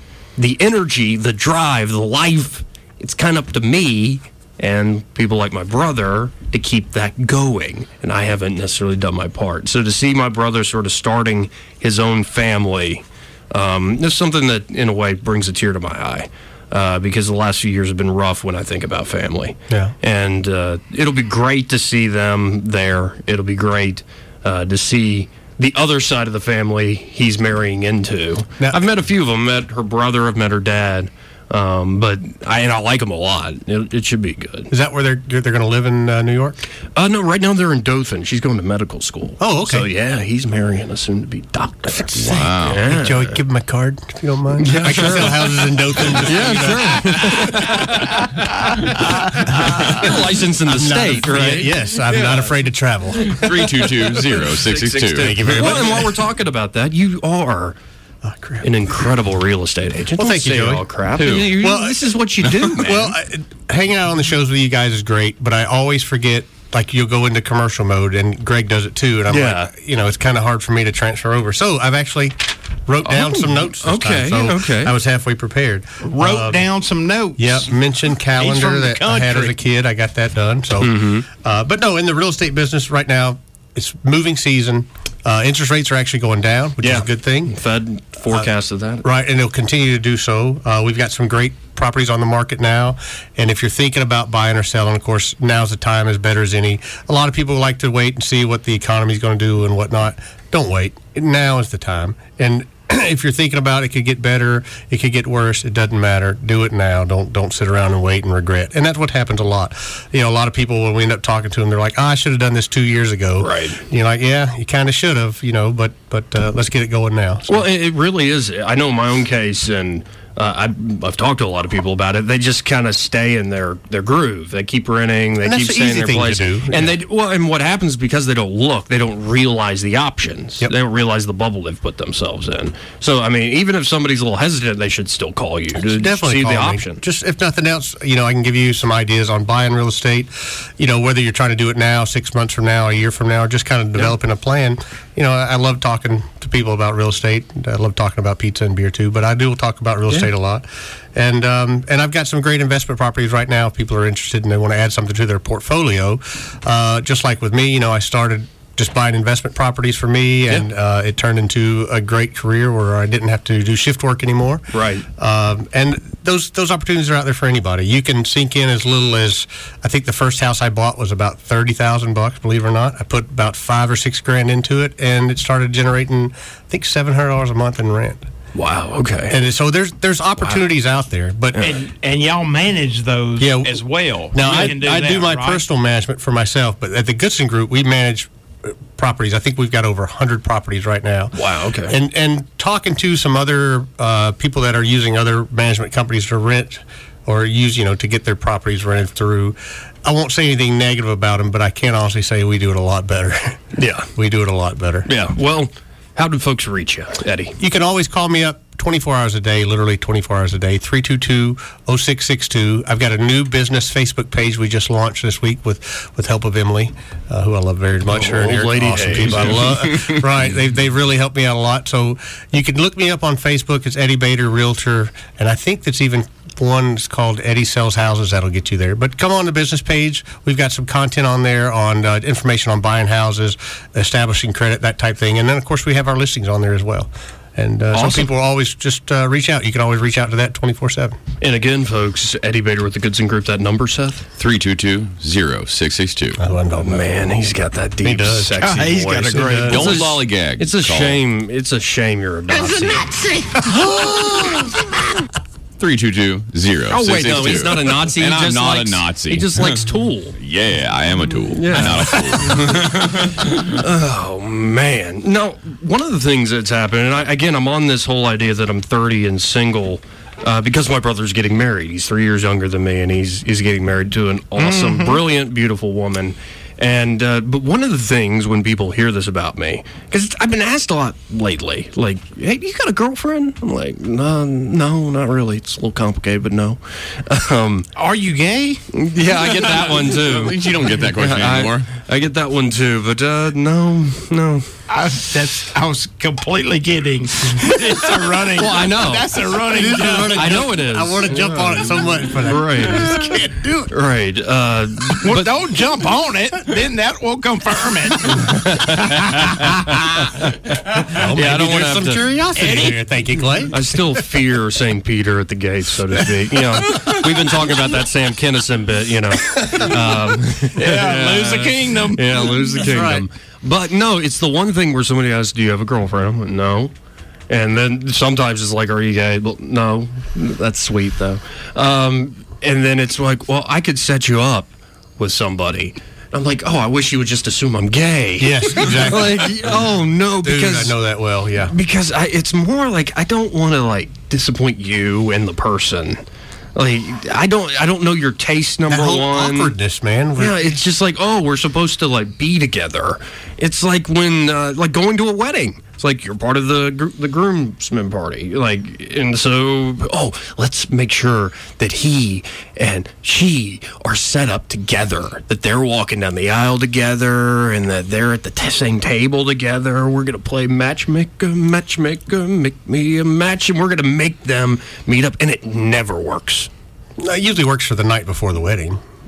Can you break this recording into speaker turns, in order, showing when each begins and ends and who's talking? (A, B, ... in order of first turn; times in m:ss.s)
0:00.4-0:34.7 A
0:34.7-0:36.6 B
0:37.0-0:43.4 A
0:39.4-0:39.9 B
0:42.1-0:48.0 B
0:42.1-0:42.9 C
0:44.6-0:48.3 A
0:49.1-0:50.1 B
0:49.6-0:52.3 A
0:50.7-0:53.8 B
0:53.3-0:56.1 C
0:54.3-0:57.8 A
0:55.2-0:56.1 B
0:58.2-0:58.9 B
0:58.6-1:03.2 A
1:00.2-1:02.0 B
1:01.1-1:01.6 C
1:02.7-1:16.6 B
1:09.3-1:09.7 A
1:13.0-1:15.0 A
1:16.0-1:19.6 D
1:17.4-1:27.6 B
1:20.8-1:21.2 A
1:26.8-1:29.0 A
1:29.0-1:57.6 B
1:53.4-1:53.8 A
1:57.5-2:17.0 A
2:05.4-2:07.0 B
2:15.7-2:58.3 B
2:44.7-2:45.0 A
2:58.6-2:59.4 A
2:59.3-3:01.6 B
3:01.5-3:01.8 A
3:01.6-3:05.6 D
3:03.4-3:23.6 B
3:11.3-3:12.0 A
3:23.7-3:24.1 A
3:24.1-3:25.1 B
3:25.1-3:27.6 A
3:27.6-4:01.2 B
3:38.0-3:39.9 A
3:39.9-3:40.2 C
3:57.9-3:58.3 A
4:01.4-4:04.3 A
4:04.4-4:06.4 C
4:06.4-4:07.2 B
4:06.8-4:13.1 A
4:08.0-4:08.8 B
4:08.6-4:10.1 D
4:09.3-4:10.0 B
4:09.6-4:11.2 C
4:13.1-4:13.6 D
4:13.6-4:14.7 A
4:15.8-4:19.8 C
4:16.9-4:20.4 A
4:20.4-4:23.7 C
4:21.5-4:47.9 A
4:34.6-4:35.2 D
4:48.0-4:48.8 D
4:48.9-4:54.7 A
4:49.3-4:51.9 C
4:54.9-5:00.6 D
4:58.6-4:59.3 A
4:59.7-5:03.4 B
5:00.3-5:01.9 A
5:02.4-5:03.1 A
5:02.8-5:03.9 D
5:03.9-5:05.5 A
5:05.2-5:10.0 D
5:08.3-5:12.3 A
5:11.0-5:14.2 B
5:12.6-5:13.2 D
5:13.7-5:26.9 A
5:16.8-5:17.2 D
5:19.7-5:22.8 D
5:22.8-5:23.3 B
5:27.5-5:41.0 A
5:38.4-5:41.7 B
5:41.7-5:46.2 A
5:46.7-5:49.8 A
5:48.9-5:50.8 B
5:50.4-6:16.7 A
6:17.2-6:19.0 B